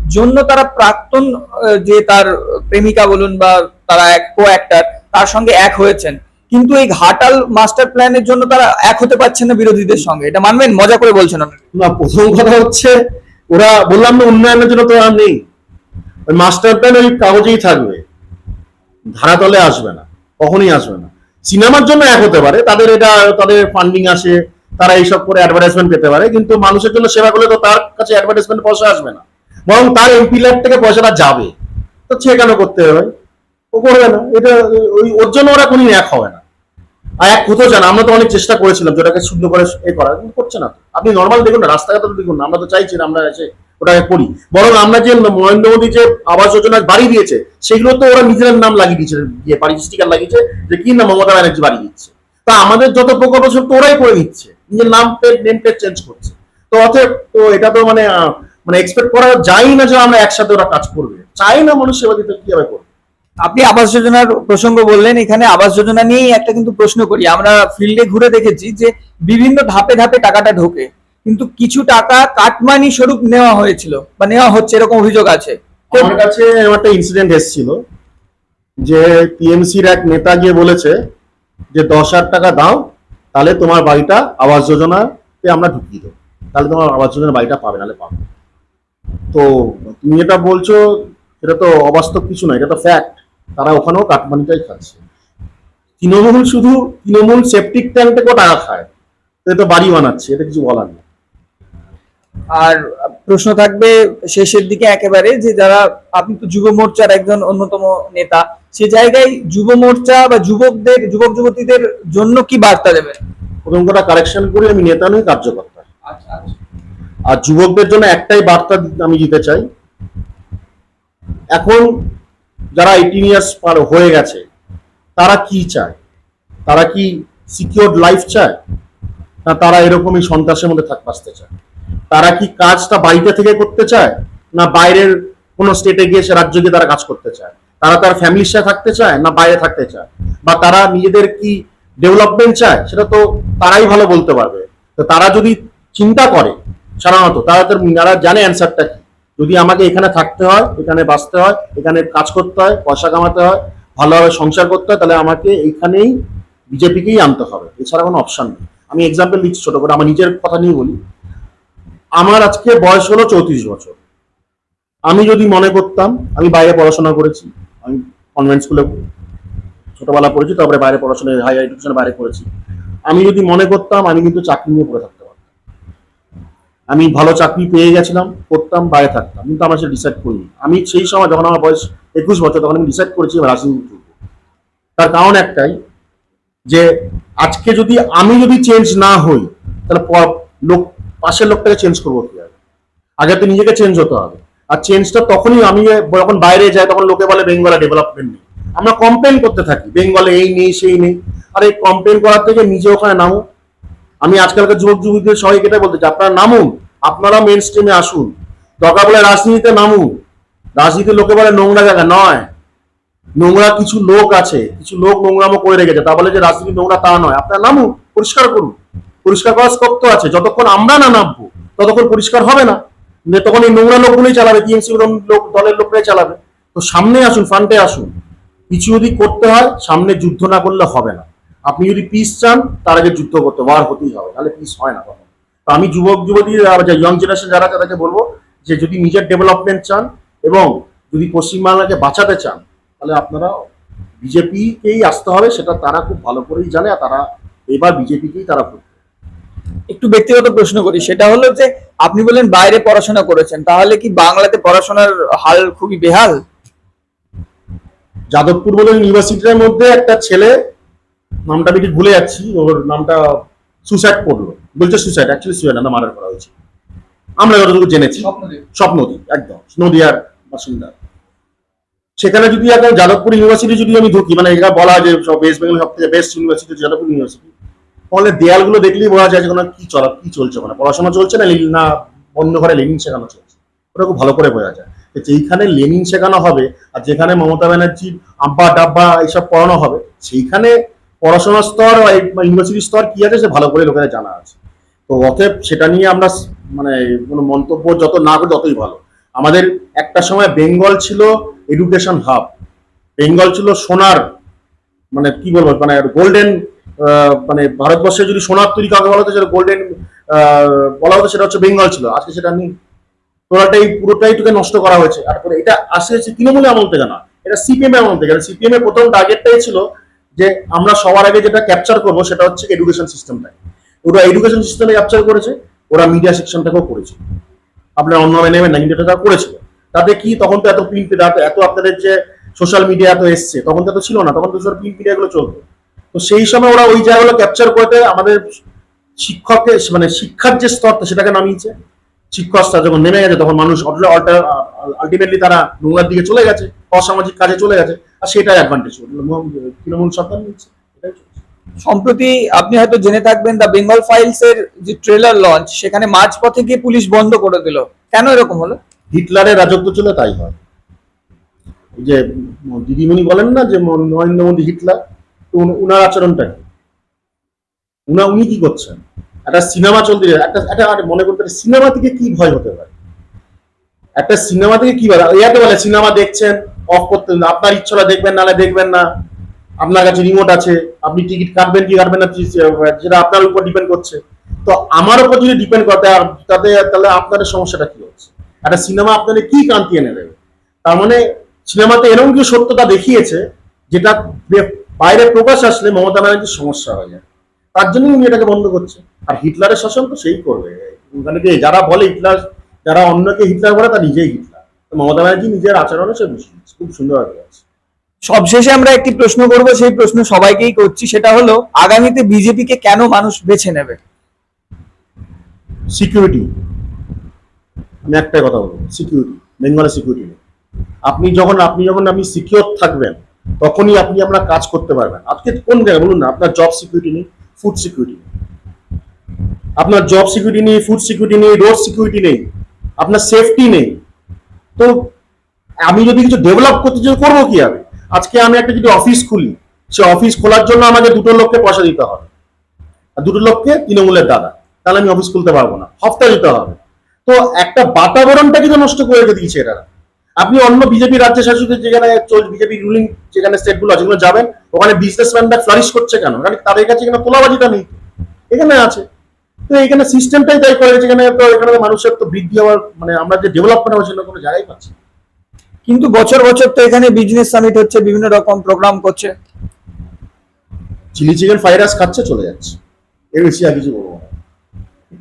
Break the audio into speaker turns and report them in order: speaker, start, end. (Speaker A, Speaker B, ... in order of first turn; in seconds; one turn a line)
Speaker A: 0.1-1.3
Speaker A: 1.8-11.6
Speaker B: 11.7-12.9
Speaker B: 13.5-15.4
Speaker B: 16.3-18.0
Speaker B: 19.1-31.5
Speaker B: 32.1-33.1
Speaker B: 33.7-36.4
Speaker B: 37.2-62.9
Speaker A: 63.4-76.1
Speaker B: 75.9-77.8
Speaker B: 78.8-81.0
Speaker B: 81.7-88.2
Speaker B: 89.3-95.0
Speaker B: 96.0-98.9
Speaker B: 99.4-101.0
Speaker A: 102.5-113.2
Speaker B: 113.7-115.9
Speaker A: 116.1-116.5
Speaker B: 117.3-119.6
Speaker B: 121.5-121.9
Speaker B: 122.8-124.4
Speaker B: 125.2-126.0
Speaker B: 126.7-128.6
Speaker B: 129.4-131.5
Speaker B: 132.1-156.1
Speaker B: 156.7-161.0
Speaker B: 162.2-164.0
Speaker B: 165.1-168.9
Speaker B: 169.9-172.4
Speaker B: 173.1-175.3
Speaker B: 176.9-184.1
Speaker B: 185.0-185.7
Speaker B: 187.4-192.5
Speaker B: 193.2-203.4
Speaker B: 204.2-210.1
Speaker B: 210.8-212.5
Speaker B: 213.4-228.1
Speaker B: 228.7-243.5
Speaker B: 244.2-248.9
Speaker A: 249.9-256.4
Speaker B: 258.3-260.5
Speaker B: 261.5-266.5
Speaker B: 267.4-270.9
Speaker A: 268.2-268.6
Speaker B: 272.2-277.5
Speaker B: 278.1-294.6
Speaker B: 295.1-302.5
Speaker B: 303.2-304.2
Speaker B: 305.1-312.7
Speaker B: 313.5-319.8
Speaker B: 320.4-327.2
Speaker B: 328.0-338.4
Speaker B: 339.2-341.7
Speaker B: 342.3-351.4
Speaker A: 351.8-358.8
Speaker B: 359.1-360.6
Speaker B: 362.0-365.0
Speaker B: 365.5-366.6
Speaker B: 368.1-372.9
Speaker B: 374.2-379.1
Speaker B: 379.8-397.2
Speaker B: 397.7-407.6
Speaker A: 408.3-414.0
Speaker B: 415.9-416.5
Speaker B: 418.1-420.4
Speaker B: 421.1-428.2
Speaker B: 429.8-432.4
Speaker B: 433.0-433.9
Speaker B: 435.9-442.3
Speaker B: 443.2-449.9
Speaker B: 450.4-457.9
Speaker B: 458.5-459.0
Speaker B: 459.7-464.9
Speaker A: 465.9-469.3
Speaker B: 471.1-472.8
Speaker B: 473.4-474.3